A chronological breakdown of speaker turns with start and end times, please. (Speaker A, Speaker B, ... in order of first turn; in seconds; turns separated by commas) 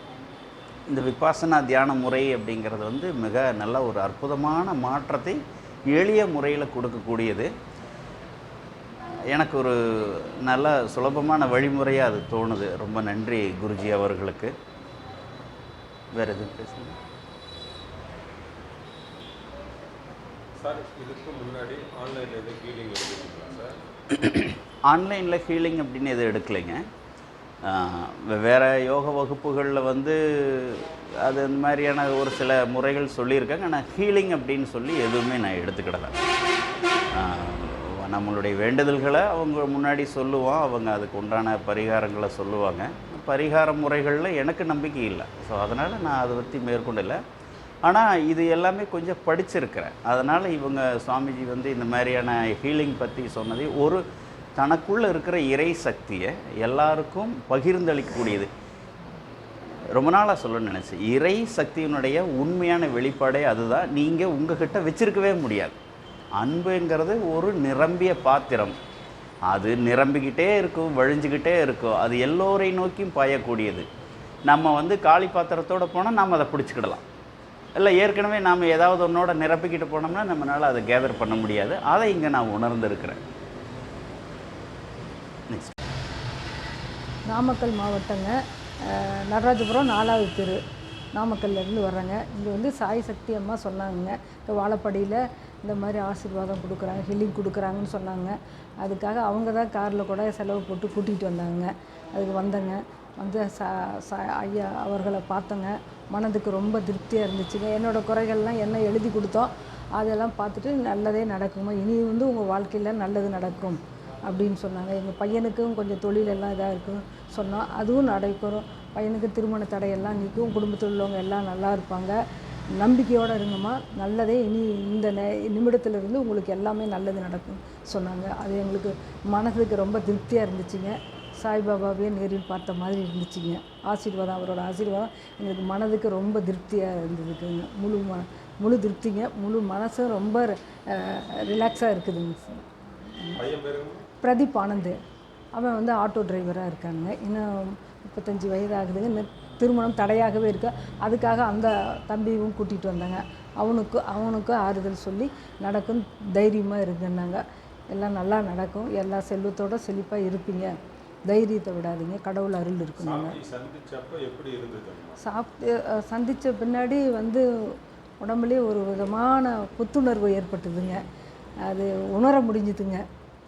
Speaker A: 0.9-5.4, Speaker A: 5.9-7.5, Speaker A: 9.3-14.5, Speaker A: 16.1-17.0, Speaker B: 20.6-23.8, Speaker A: 24.9-26.8, Speaker A: 27.6-36.1, Speaker A: 37.1-47.2, Speaker A: 47.9-54.0, Speaker A: 54.6-58.5, Speaker A: 60.0-65.8, Speaker A: 66.4-68.7, Speaker A: 69.5-73.9, Speaker A: 74.5-77.0, Speaker A: 77.8-83.2, Speaker C: 87.3-90.6, Speaker C: 91.2-122.2, Speaker C: 122.8-142.6, Speaker B: 143.4-144.0, Speaker C: 144.2-145.0, Speaker C: 145.6-160.7, Speaker C: 161.3-163.4, Speaker B: 163.0-165.2, Speaker C: 165.2-167.5, Speaker C: 168.2-171.0, Speaker C: 171.7-173.0